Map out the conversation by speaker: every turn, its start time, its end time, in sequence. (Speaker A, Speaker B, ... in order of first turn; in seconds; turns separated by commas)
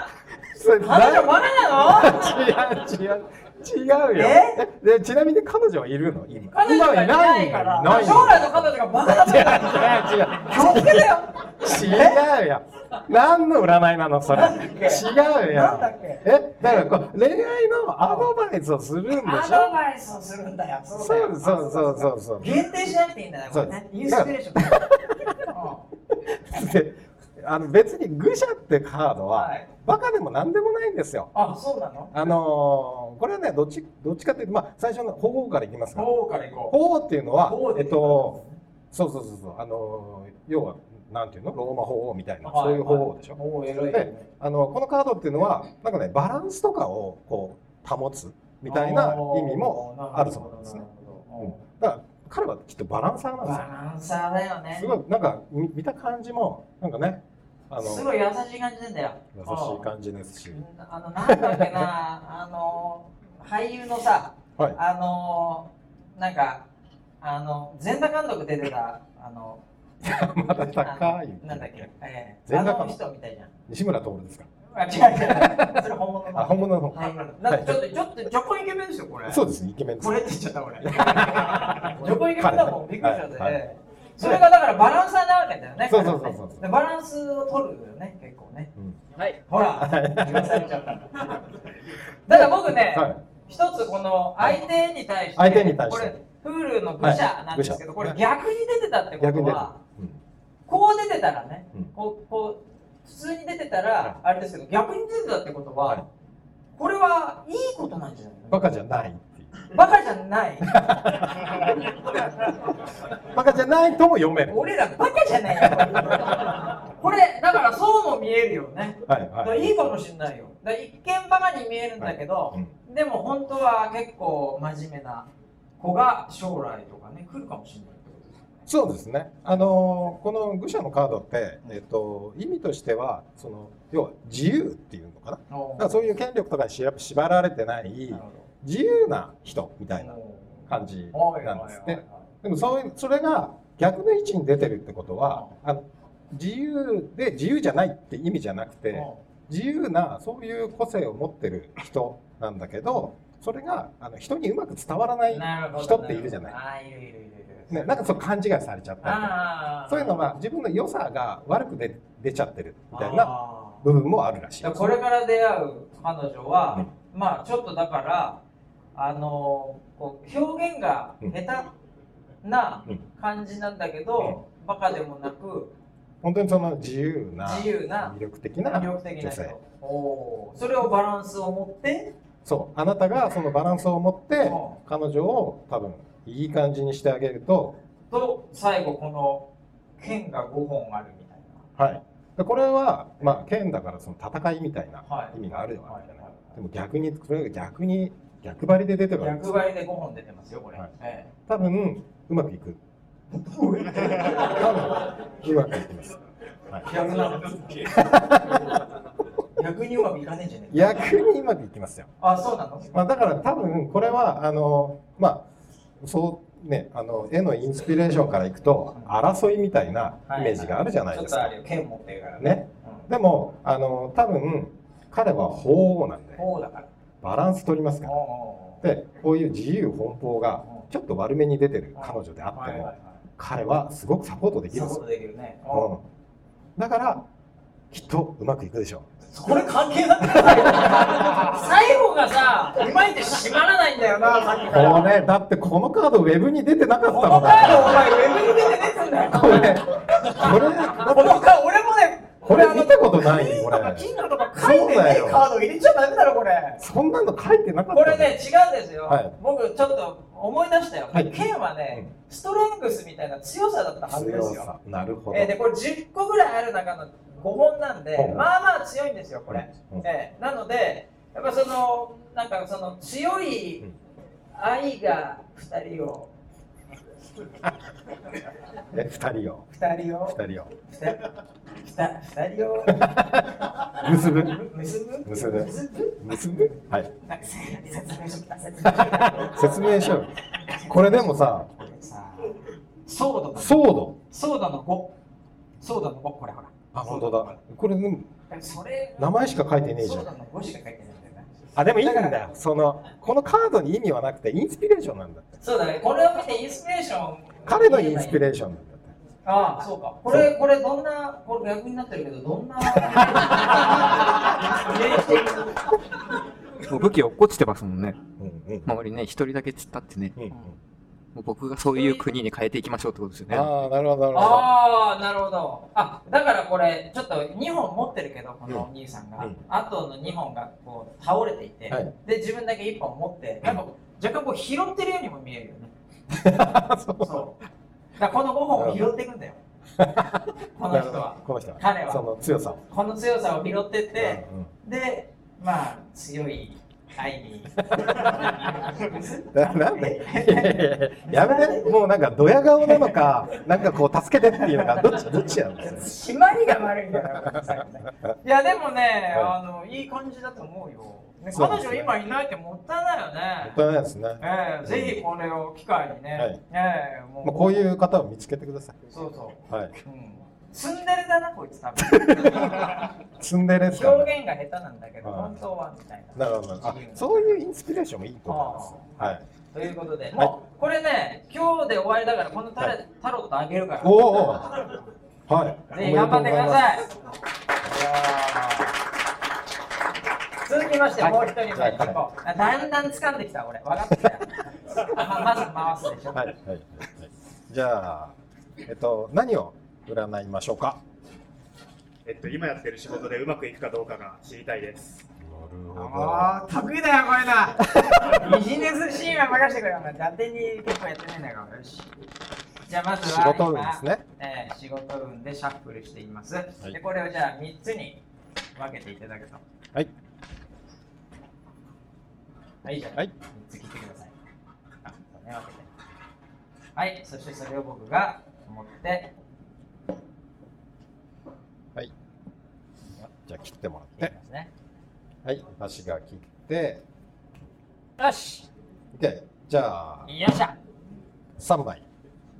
Speaker A: 0.5-19.7, Speaker B: 0.8-2.3, Speaker B: 4.1-4.6, Speaker B: 6.5-12.2, Speaker B: 14.3-16.8, Speaker B: 18.0-18.3, Speaker B: 19.2-24.8, Speaker A: 20.9-22.6, Speaker A: 23.5-25.5, Speaker B: 25.4-25.9, Speaker A: 26.1-31.3, Speaker B: 29.3-29.7, Speaker B: 31.3-32.2, Speaker A: 32.1-36.1, Speaker B: 35.9-36.7, Speaker A: 36.7-38.4, Speaker B: 37.4-38.6, Speaker A: 38.9-43.4, Speaker B: 42.4-44.3, Speaker A: 43.9-50.8, Speaker B: 48.6-51.6, Speaker A: 51.4-53.7, Speaker B: 53.4-54.9, Speaker A: 54.7-58.1, Speaker B: 57.8-59.9, Speaker A: 59.3-60.6, Speaker B: 60.5-66.7, Speaker A: 61.2-61.9, Speaker B: 67.2-69.6, Speaker A: 70.0-71.9, Speaker B: 70.4-73.5, Speaker A: 72.5-73.0, Speaker A: 73.7-74.5, Speaker B: 74.7-79.4, Speaker A: 75.2-77.8, Speaker A: 79.2-80.3, Speaker B: 80.0-91.4, Speaker A: 80.8-83.6, Speaker A: 85.9-86.6, Speaker A: 89.7-90.7, Speaker B: 92.3-99.8, Speaker A: 92.3-93.2, Speaker A: 95.3-96.2, Speaker A: 97.0-98.2, Speaker A: 99.2-100.2, Speaker B: 100.7-106.0, Speaker B: 106.8-108.7, Speaker A: 108.5-109.5, Speaker B: 109.6-110.7, Speaker A: 110.7-111.9, Speaker A: 113.2-114.7, Speaker B: 114.5-128.7, Speaker A: 119.0-120.0, Speaker A: 122.0-122.7, Speaker A: 128.7-156.5, Speaker B: 135.5-136.1, Speaker B: 138.1-138.5, Speaker B: 139.9-142.3, Speaker B: 145.3-145.6, Speaker B: 148.9-149.2, Speaker B: 155.3-158.2, Speaker A: 157.7-164.9, Speaker B: 159.0-160.2, Speaker B: 162.9-163.8, Speaker B: 164.6-168.4, Speaker B: 168.9-171.7, Speaker B: 172.4-175.7, Speaker A: 176.2-179.6, Speaker B: 177.4-182.1, Speaker A: 182.4-187.8, Speaker B: 184.4-184.8, Speaker B: 188.1-191.7, Speaker A: 191.8-199.7, Speaker B: 195.0-196.6, Speaker B: 199.2-201.3, Speaker A: 201.5-202.8, Speaker B: 203.3-205.1, Speaker A: 204.2-206.2, Speaker B: 206.8-208.4, Speaker A: 207.9-208.8, Speaker B: 209.6-211.2, Speaker A: 210.7-212.1, Speaker B: 212.2-212.9, Speaker A: 212.9-215.4, Speaker A: 216.0-221.5, Speaker B: 220.3-223.1, Speaker A: 222.4-226.4, Speaker B: 226.4-226.9, Speaker A: 227.2-228.2, Speaker B: 228.0-228.8, Speaker A: 228.8-235.0, Speaker B: 230.6-230.9, Speaker B: 231.9-233.2, Speaker B: 234.7-236.0, Speaker A: 235.7-236.0, Speaker A: 236.8-237.3, Speaker A: 237.9-239.1, Speaker B: 239.3-245.1, Speaker A: 240.5-241.3, Speaker A: 244.7-248.2, Speaker B: 247.1-256.8, Speaker A: 249.3-251.5, Speaker A: 252.4-255.5, Speaker A: 256.8-258.4, Speaker B: 257.9-264.7, Speaker A: 259.1-259.4, Speaker A: 264.1-265.5, Speaker B: 265.3-273.9, Speaker A: 268.1-268.5, Speaker A: 269.5-270.1, Speaker B: 274.5-276.3, Speaker A: 278.9-279.7, Speaker B: 279.7-283.1, Speaker A: 280.3-280.7, Speaker A: 282.9-284.6, Speaker B: 284.2-295.1, Speaker A: 285.2-287.1, Speaker A: 288.9-290.3, Speaker A: 290.9-291.7, Speaker A: 293.5-294.2, Speaker B: 295.8-297.6, Speaker A: 296.9-298.3, Speaker B: 298.5-299.3, Speaker A: 299.2-300.3, Speaker B: 300.0-302.4, Speaker A: 301.7-305.6, Speaker B: 305.6-308.4, Speaker A: 307.6-309.1, Speaker B: 309.4-315.9, Speaker C: 316.9-318.3, Speaker A: 318.4-318.9, Speaker C: 318.9-320.3, Speaker A: 320.4-320.7, Speaker C: 321.3-323.7, Speaker B: 321.9-322.2, Speaker A: 323.5-324.7, Speaker B: 324.3-335.9, Speaker A: 328.6-329.6, Speaker A: 336.3-337.5, Speaker B: 337.2-337.6, Speaker B: 338.1-339.6, Speaker A: 338.7-339.1, Speaker A: 340.0-342.8, Speaker B: 340.7-342.3, Speaker B: 342.9-352.0, Speaker A: 344.1-344.7, Speaker A: 347.9-348.4, Speaker A: 349.5-356.2, Speaker B: 352.8-353.6, Speaker B: 354.6-363.8, Speaker A: 357.1-358.3, Speaker A: 361.5-362.1, Speaker A: 363.6-365.2, Speaker B: 364.4-367.8, Speaker A: 367.4-369.0, Speaker B: 369.1-373.0, Speaker A: 369.7-369.9, Speaker A: 372.3-374.3, Speaker B: 373.9-377.5, Speaker A: 375.2-375.6, Speaker A: 376.4-379.4, Speaker B: 378.4-384.5, Speaker A: 384.0-384.8, Speaker A: 385.5-387.0, Speaker B: 385.9-387.1, Speaker B: 387.8-389.0, Speaker B: 390.6-396.5, Speaker A: 391.2-392.2, Speaker A: 396.3-401.0, Speaker D: 402.2-405.3, Speaker A: 405.4-406.6, Speaker B: 405.9-412.1, Speaker A: 407.9-408.4, Speaker B: 412.9-418.2, Speaker A: 413.2-414.2, Speaker B: 418.7-419.6, Speaker B: 422.8-424.3, Speaker B: 425.0-425.9, Speaker B: 426.9-429.3, Speaker A: 433.4-434.3, Speaker B: 434.1-434.7, Speaker A: 435.4-437.0, Speaker B: 438.2-438.7, Speaker A: 439.1-440.3, Speaker B: 440.3-440.8, Speaker A: 441.6-442.0